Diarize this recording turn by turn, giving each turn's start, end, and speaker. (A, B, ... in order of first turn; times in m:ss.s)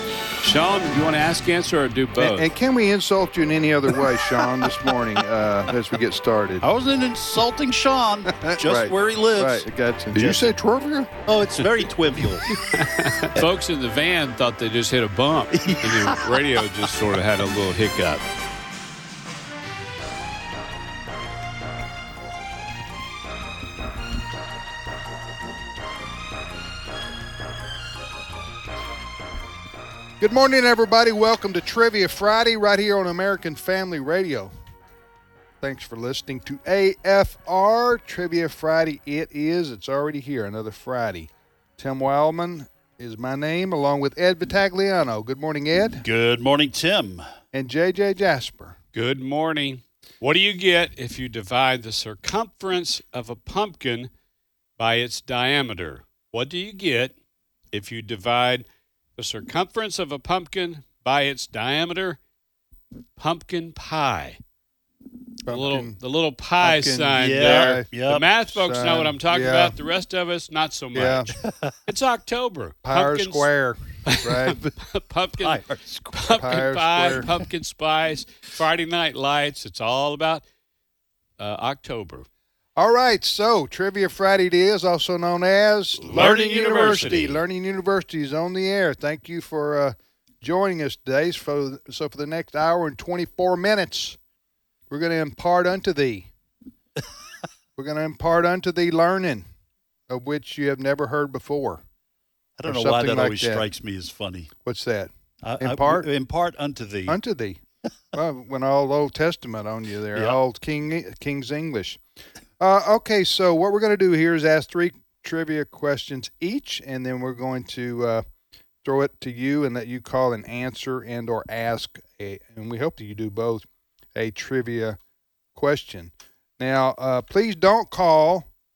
0:00.4-0:02.5 A
0:02.2-0:06.6 B
0:06.6-0:10.5 C
0:08.4-0:11.1 B
0:11.3-0:12.5 C
0:12.5-0:18.2 A
0:15.6-0:16.2 C
0:30.2-0:34.5 B
0:35.6-0:46.1 B
0:46.0-0:47.3 C
0:47.5-0:48.8 B
0:48.9-0:54.1 A
0:54.8-0:57.1 A
0:57.7-0:58.7 A
0:59.2-1:02.2 A
1:03.2-1:04.4 A
1:05.5-1:06.0 B
1:05.5-1:11.3 A
1:06.6-1:07.9 B
1:07.2-1:08.3 C
1:08.5-1:09.8 B
1:10.9-1:11.3 B
1:11.4-1:11.8 C
1:11.9-1:13.5 A
1:12.8-1:14.7 B
1:14.1-1:15.6 A
1:15.4-1:16.2 C
1:16.1-1:20.4 A
1:16.2-1:17.3 B
1:21.4-1:22.3 A
1:22.8-1:34.2 B
1:26.0-1:27.4 A
1:34.9-1:36.3 B
1:37.8-1:39.5 B
1:40.1-1:41.8 B
1:42.6-1:44.5 C
1:42.7-1:43.7 B
1:44.6-1:46.1 B
1:45.4-1:47.2 C
1:47.1-1:47.6 B
1:48.1-1:52.0 B
1:52.6-1:58.2 B
1:58.8-2:05.0 B
2:05.6-2:08.5 B